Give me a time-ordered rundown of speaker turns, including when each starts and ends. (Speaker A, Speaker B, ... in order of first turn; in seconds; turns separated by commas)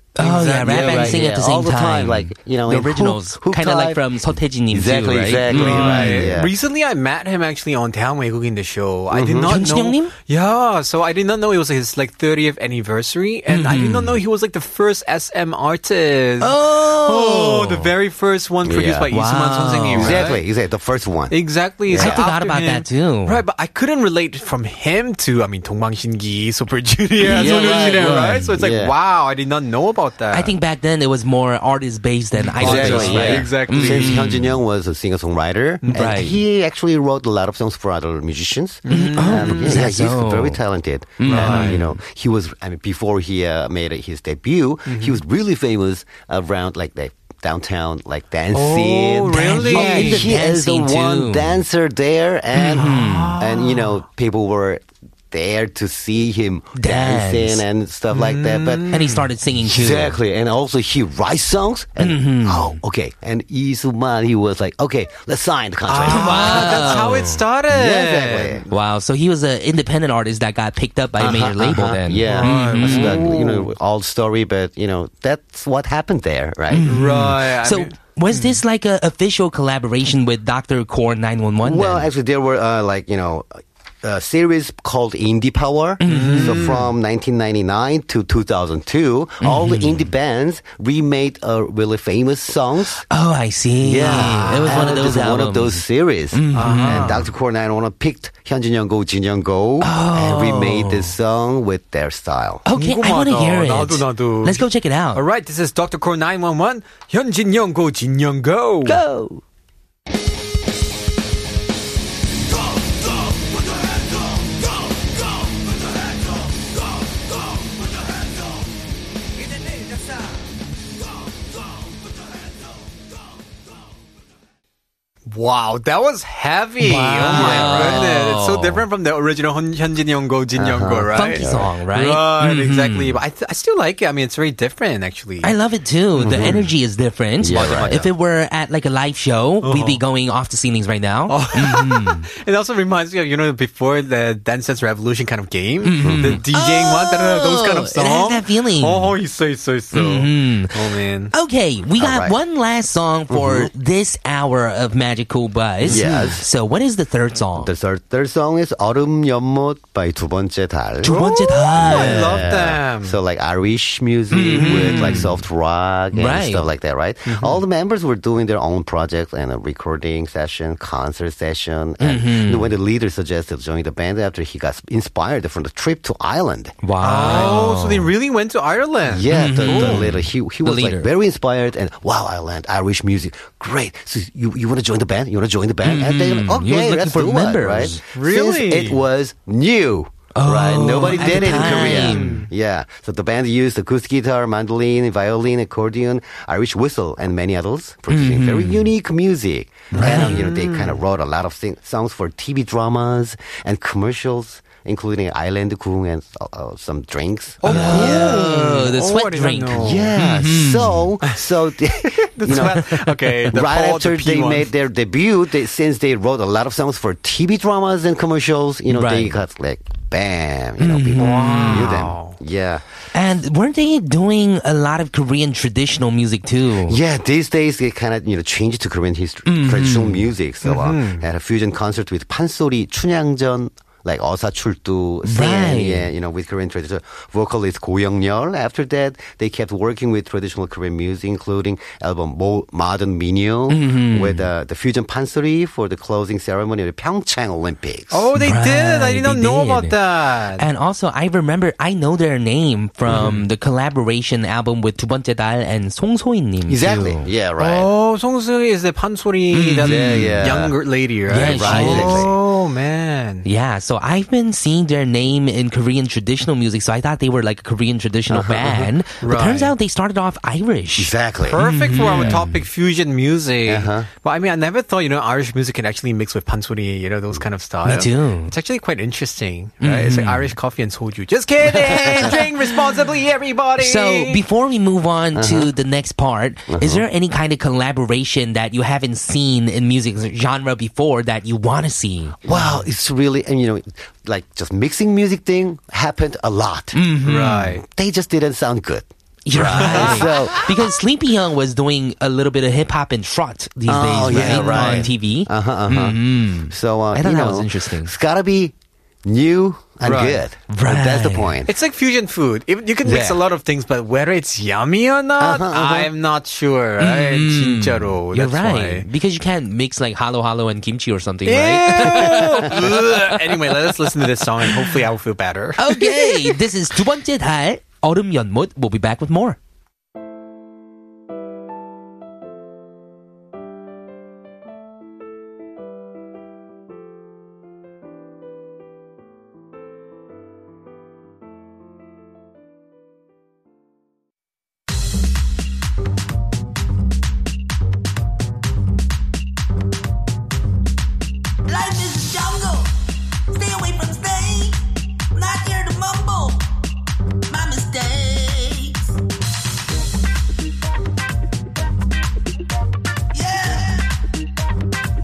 Speaker A: 0.2-6.3, Speaker B: 0.2-1.3, Speaker C: 0.6-4.2, Speaker C: 4.7-6.5, Speaker B: 5.5-20.4, Speaker C: 9.1-9.6, Speaker A: 9.5-10.1, Speaker A: 13.5-14.2, Speaker A: 16.4-17.9, Speaker C: 18.6-19.1, Speaker A: 19.1-20.2, Speaker C: 19.9-22.2, Speaker B: 21.3-30.5, Speaker A: 22.0-23.4, Speaker A: 27.2-28.5, Speaker C: 27.3-28.9, Speaker A: 30.3-34.5, Speaker B: 32.4-34.3, Speaker C: 32.6-58.9, Speaker B: 35.8-36.1, Speaker A: 35.9-36.4, Speaker B: 38.9-39.8, Speaker A: 38.9-40.6, Speaker A: 41.2-41.9, Speaker B: 41.2-41.8, Speaker B: 44.9-45.2, Speaker B: 48.5-50.3, Speaker A: 49.3-51.6, Speaker A: 52.6-53.4, Speaker B: 52.8-54.0, Speaker A: 56.8-57.6, Speaker B: 58.1-59.3, Speaker A: 58.9-60.2, Speaker C: 59.6-67.0, Speaker A: 62.0-62.7, Speaker B: 65.9-68.6, Speaker A: 66.1-67.4, Speaker C: 67.7-68.7, Speaker A: 68.7-73.2, Speaker C: 71.2-77.0, Speaker B: 72.2-73.7, Speaker A: 76.7-82.0, Speaker B: 76.9-78.6, Speaker C: 81.6-93.0, Speaker A: 86.0-86.7, Speaker B: 86.0-86.9, Speaker A: 89.4-90.0, Speaker A: 93.1-95.7, Speaker C: 93.8-102.6, Speaker B: 94.0-95.2, Speaker A: 96.3-97.1, Speaker B: 96.5-97.3, Speaker A: 99.8-101.0, Speaker A: 102.7-105.2, Speaker B: 102.7-109.0, Speaker A: 108.9-109.4, Speaker B: 125.3-135.5, Speaker A: 126.8-128.8, Speaker C: 127.3-128.1, Speaker C: 130.6-131.7, Speaker A: 131.2-133.1, Speaker A: 135.4-142.2, Speaker C: 136.2-136.7, Speaker C: 137.4-138.1, Speaker B: 137.5-138.1, Speaker B: 139.6-140.0, Speaker B: 141.3-151.3, Speaker A: 145.9-149.1, Speaker C: 146.0-146.4, Speaker A: 150.0-150.7, Speaker A: 151.4-157.7, Speaker C: 152.0-152.4, Speaker C: 153.3-153.7, Speaker C: 155.8-156.4, Speaker C: 157.6-177.6, Speaker B: 161.0-163.2, Speaker A: 161.2-162.2, Speaker D: 161.3-161.7, Speaker B: 164.5-165.3, Speaker A: 164.7-165.0, Speaker A: 166.2-166.6, Speaker B: 167.3-167.6, Speaker A: 172.1-172.6, Speaker A: 176.9-177.9, Speaker B: 177.0-180.1, Speaker C: 179.1-208.5, Speaker A: 179.4-180.1, Speaker A: 180.7-180.9, Speaker A: 185.9-187.9, Speaker B: 188.1-189.0, Speaker A: 190.4-192.3, Speaker B: 191.2-192.5, Speaker A: 198.2-198.7, Speaker B: 200.0-201.0, Speaker B: 207.6-210.1, Speaker A: 207.7-210.8, Speaker C: 209.8-222.8, Speaker B: 212.2-214.7, Speaker A: 220.9-221.8, Speaker B: 221.2-222.4, Speaker A: 223.2-226.9, Speaker C: 226.9-248.3, Speaker B: 230.6-231.2, Speaker A: 235.4-235.9, Speaker A: 243.9-244.2, Speaker B: 248.1-250.7, Speaker A: 249.3-249.7, Speaker A: 250.6-257.1, Speaker B: 253.1-253.5, Speaker C: 256.7-257.9, Speaker B: 257.6-263.5, Speaker C: 259.8-260.8, Speaker C: 261.3-262.4, Speaker A: 261.4-262.2, Speaker A: 263.5-270.9, Speaker C: 268.3-268.9, Speaker D: 268.4-269.4, Speaker B: 269.2-269.7, Speaker C: 271.0-272.4, Speaker B: 271.4-284.4, Speaker A: 271.9-272.3, Speaker C: 273.6-274.1, Speaker A: 277.9-278.4, Speaker A: 279.9-280.2, Speaker A: 283.9-292.3, Speaker C: 285.3-285.7, Speaker C: 286.7-287.1, Speaker C: 292.4-297.0, Speaker A: 297.1-297.6, Speaker B: 297.2-297.8, Speaker C: 297.8-300.9, Speaker A: 299.5-305.4, Speaker B: 299.6-300.5, Speaker C: 303.9-308.7, Speaker B: 304.3-305.1, Speaker A: 305.9-306.6, Speaker A: 307.2-308.0, Speaker C: 309.2-311.7, Speaker B: 310.0-310.4, Speaker A: 310.9-311.3, Speaker B: 311.7-319.1, Speaker C: 313.0-313.4, Speaker C: 315.4-316.1, Speaker D: 318.4-318.8, Speaker A: 319.0-322.7, Speaker D: 321.4-321.7, Speaker B: 321.4-326.6, Speaker D: 325.9-327.3, Speaker A: 326.2-329.5, Speaker D: 351.7-352.9, Speaker D: 353.5-354.8, Speaker D: 355.3-356.7, Speaker D: 357.5-359.1, Speaker D: 363.3-364.1